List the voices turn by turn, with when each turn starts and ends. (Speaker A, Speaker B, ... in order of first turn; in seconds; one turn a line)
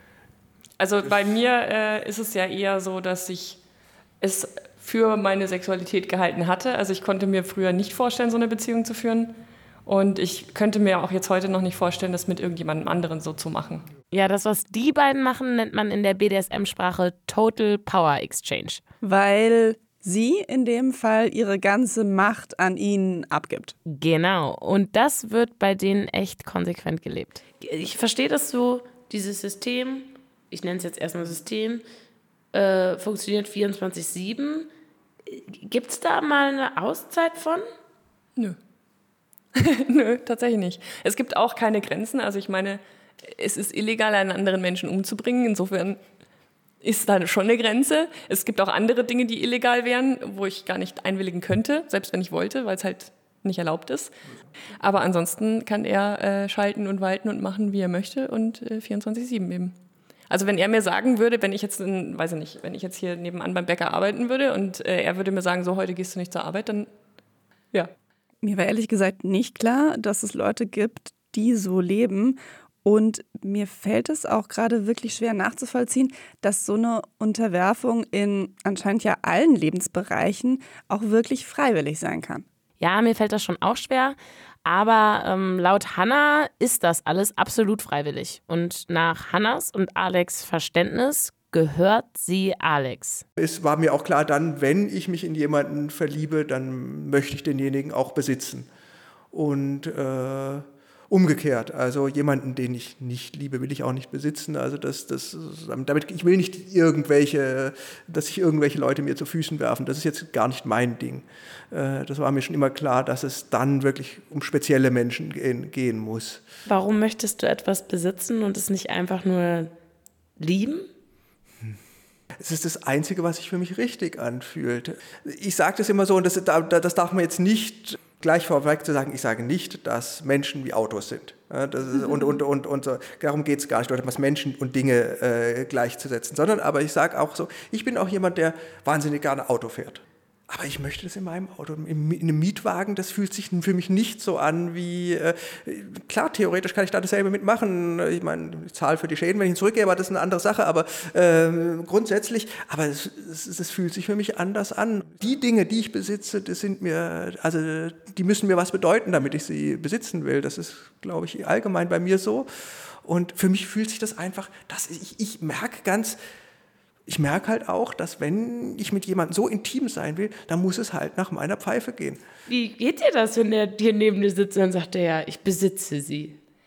Speaker A: 0.8-3.6
Speaker B: 1.0-1.3
Speaker A: 4.2-13.9
Speaker C: 14.1-18.8
Speaker D: 19.0-23.7
Speaker C: 23.9-31.8
Speaker C: 32.5-34.7
Speaker C: 35.3-37.6
Speaker A: 39.5-46.0
Speaker A: 46.8-54.1
Speaker A: 54.8-59.8
Speaker A: 60.3-66.9
Speaker D: 68.4-82.5
Speaker C: 82.8-93.2
Speaker B: 93.4-98.7
Speaker B: 99.3-116.4
Speaker C: 116.7-119.7
Speaker C: 120.4-120.9
Speaker B: 122.4-166.2
Speaker B: 167.1-172.2
Speaker C: 172.5-176.4